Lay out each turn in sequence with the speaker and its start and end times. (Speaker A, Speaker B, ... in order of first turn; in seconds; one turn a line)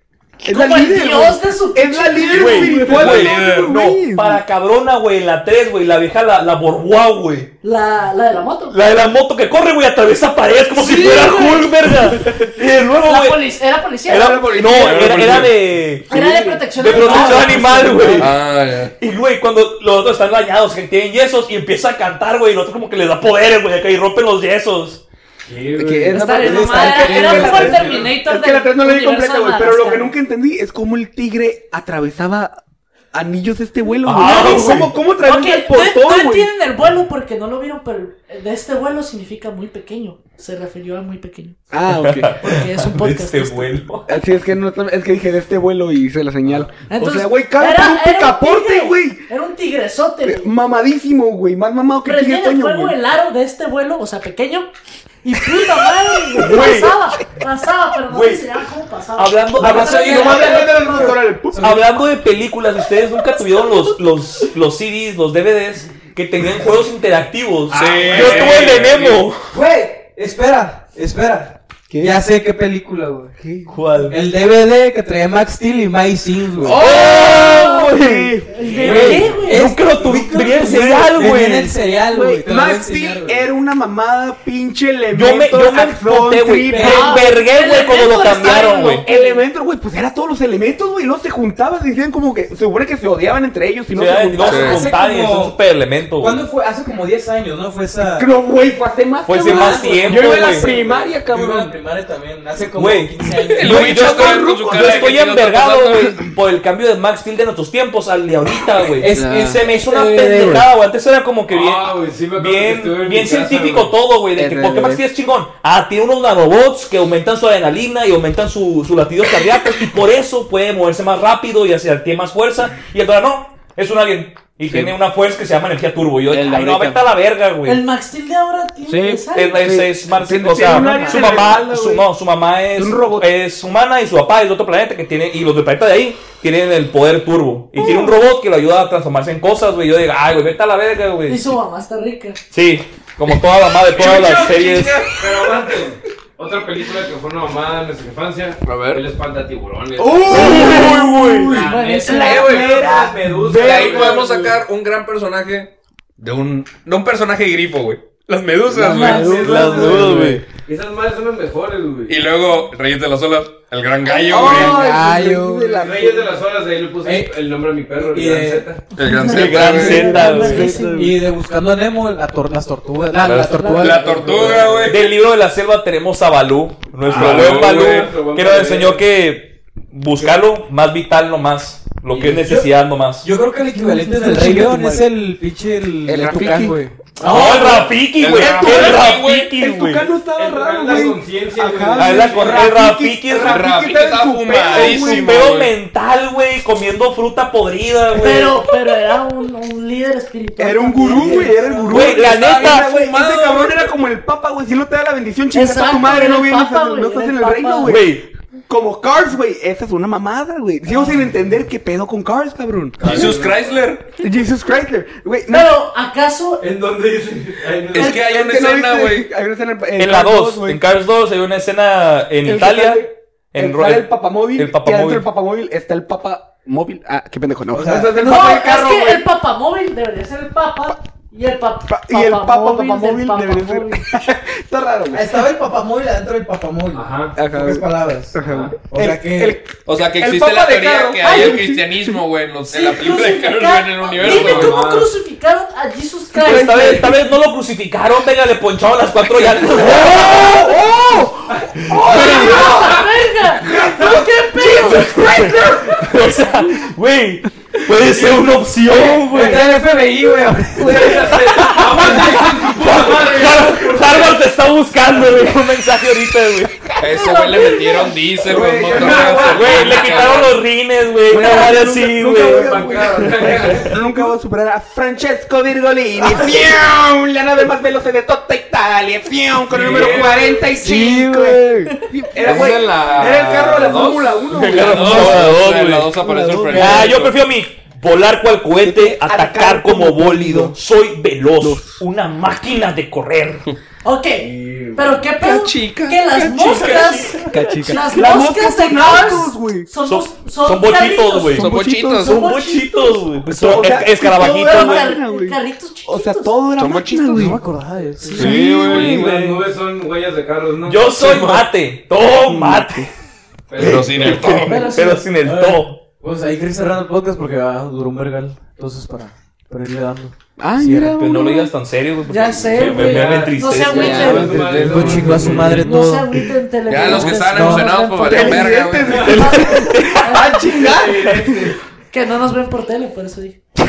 Speaker A: 0.4-4.4
Speaker B: 0.5-3.0
Speaker C: 2.3-7.5
Speaker D: 2.8-3.7
Speaker B: 7.6-8.8
Speaker C: 8.7-13.4
Speaker B: 10.7-12.1
Speaker B: 13.0-14.6
Speaker C: 14.1-16.1
Speaker A: 14.1-15.5
Speaker D: 14.7-15.6
Speaker A: 16.1-16.9
Speaker B: 16.1-18.3
Speaker C: 16.8-18.3
Speaker E: 16.9-18.2
Speaker D: 18.2-18.9
Speaker C: 19.0-25.0
Speaker F: 25.4-26.2
Speaker A: 25.8-32.5
Speaker E: 26.1-27.8
Speaker B: 26.1-30.1
Speaker F: 27.4-28.1
Speaker A: 33.1-36.5
Speaker C: 34.0-35.0
Speaker B: 34.2-41.6
Speaker A: 41.7-42.4
Speaker C: 41.9-44.1
Speaker B: 42.4-43.7
Speaker A: 44.1-49.2
Speaker B: 46.9-50.5
Speaker A: 50.3-53.0
Speaker B: 52.0-54.7
Speaker B: 55.2-61.2
Speaker C: 56.4-57.0
Speaker C: 58.1-58.5
Speaker C: 59.2-60.5
Speaker E: 59.6-61.8
Speaker A: 59.8-61.8
Speaker C: 61.6-69.4
Speaker B: 63.6-63.9
Speaker D: 67.7-69.2
Speaker F: 67.8-68.7
Speaker E: 68.1-68.6
Speaker E: 69.5-73.3
Speaker A: 71.9-72.2
Speaker A: 73.4-73.7
Speaker C: 73.7-74.2
Speaker E: 74.1-76.8
Speaker A: 76.6-79.3
Speaker C: 76.8-81.8
Speaker B: 77.3-77.8
Speaker B: 78.5-79.7
Speaker E: 78.7-83.5
Speaker A: 82.1-87.3
Speaker C: 85.1-89.0
Speaker E: 86.7-87.0
Speaker B: 86.8-89.4
Speaker A: 88.2-94.8
Speaker C: 93.9-96.4
Speaker E: 94.4-95.6
Speaker D: 94.5-94.8
Speaker E: 96.2-98.3
Speaker A: 98.2-101.8
Speaker C: 99.3-100.7
Speaker E: 99.3-104.1
Speaker C: 102.7-127.8
Speaker D: 103.4-106.2
Speaker A: 103.7-105.1
Speaker E: 109.0-110.6
Speaker F: 111.5-113.9
Speaker A: 114.4-115.0
Speaker E: 126.3-127.0
Speaker B: 127.7-129.6
Speaker A: 128.9-132.1
Speaker C: 129.3-141.4
Speaker E: 130.7-131.3
Speaker A: 132.8-133.3
Speaker B: 137.8-138.2
Speaker B: 141.3-142.4
Speaker C: 142.5-145.1
Speaker D: 143.9-145.5
Speaker F: 145.1-154.6
Speaker D: 148.6-149.0
Speaker A: 150.0-154.5
Speaker C: 150.3-151.7
Speaker B: 151.5-152.7
Speaker D: 153.5-159.5
Speaker F: 158.8-162.2
Speaker B: 158.8-159.4
Speaker A: 159.0-160.2
Speaker C: 159.4-160.4
Speaker E: 159.5-160.4
Speaker D: 162.1-164.9
Speaker A: 164.1-166.3
Speaker E: 164.3-166.1
Speaker F: 165.8-169.0
Speaker E: 167.0-167.3
Speaker E: 168.0-168.7
Speaker D: 168.9-170.2
Speaker B: 169.0-171.0
Speaker C: 169.2-170.8
Speaker A: 169.7-171.2
Speaker E: 169.9-174.9
Speaker D: 173.2-175.2
Speaker B: 173.6-174.0
Speaker F: 174.2-174.7
Speaker C: 174.9-183.3
Speaker D: 177.0-178.2
Speaker F: 177.1-179.0
Speaker E: 182.1-182.7
Speaker E: 183.2-188.0
Speaker A: 184.3-185.1
Speaker A: 186.1-186.8
Speaker C: 187.2-190.1
Speaker A: 187.4-195.5
Speaker D: 188.2-189.6
Speaker F: 190.3-192.7
Speaker C: 192.0-193.7
Speaker D: 193.4-195.7
Speaker C: 194.7-198.7
Speaker B: 198.2-201.9
Speaker A: 200.6-208.2
Speaker E: 201.3-201.9
Speaker C: 201.9-202.9
Speaker D: 201.9-203.9
Speaker B: 205.5-207.9
Speaker C: 207.8-208.3
Speaker A: 208.7-213.3
Speaker F: 213.0-213.8
Speaker D: 213.0-214.1
Speaker A: 214.2-215.7
Speaker B: 215.5-216.7
Speaker F: 216.6-218.2
Speaker D: 217.9-219.3
Speaker A: 218.0-220.8
Speaker C: 220.0-225.3
Speaker A: 222.4-229.2
Speaker E: 227.7-228.2
Speaker B: 228.2-234.1
Speaker A: 231.9-235.4
Speaker E: 235.1-239.6
Speaker F: 236.9-237.4
Speaker A: 237.4-242.2
Speaker F: 238.4-238.9
Speaker D: 239.8-244.9
Speaker B: 241.2-241.7
Speaker B: 242.7-247.1
Speaker F: 244.2-245.1
Speaker C: 246.3-250.8
Speaker A: 246.4-247.2
Speaker A: 249.6-252.9
Speaker F: 251.6-253.0
Speaker B: 251.9-255.6
Speaker C: 252.0-252.7
Speaker A: 253.6-256.2
Speaker F: 253.7-254.0
Speaker C: 254.6-259.7
Speaker E: 259.3-261.4
Speaker F: 260.7-264.4
Speaker C: 261.1-266.9
Speaker D: 267.0-270.6
Speaker A: 267.0-269.8
Speaker F: 268.5-270.4
Speaker C: 269.3-273.9
Speaker A: 271.3-285.6
Speaker F: 272.4-274.1
Speaker D: 279.7-280.5
Speaker F: 279.8-280.7
Speaker E: 280.7-281.7
Speaker D: 282.4-287.3
Speaker F: 283.5-284.1
Speaker C: 284.5-286.1
Speaker A: 286.2-287.0
Speaker E: 286.6-287.1
Speaker C: 286.7-293.7
Speaker A: 288.8-290.8
Speaker A: 291.6-292.0
Speaker B: 294.0-303.3
Speaker F: 294.4-295.3
Speaker D: 295.4-296.9
Speaker C: 296.5-298.0
Speaker E: 297.5-298.2
Speaker A: 298.1-299.9
Speaker C: 300.0-301.7
Speaker A: 301.6-302.3
Speaker D: 301.6-302.5
Speaker C: 302.3-305.1
Speaker A: 303.5-307.6
Speaker B: 304.3-306.6
Speaker E: 307.0-308.6
Speaker B: 308.2-308.8
Speaker D: 308.4-309.4
Speaker F: 308.5-311.7
Speaker C: 308.9-309.6
Speaker C: 310.9-313.1
Speaker A: 312.3-313.1
Speaker F: 313.7-314.5
Speaker D: 313.8-314.9
Speaker C: 313.8-316.0
Speaker B: 314.6-315.3
Speaker E: 315.4-321.1
Speaker A: 320.6-321.7
Speaker C: 321.2-325.8
Speaker B: 322.3-330.9
Speaker F: 322.7-325.9
Speaker E: 324.2-326.3
Speaker D: 324.6-325.5
Speaker D: 326.9-329.4
Speaker E: 327.1-327.9
Speaker A: 328.2-331.7
Speaker F: 329.1-329.5
Speaker C: 329.3-330.4
Speaker F: 330.8-331.8
Speaker B: 332.1-333.6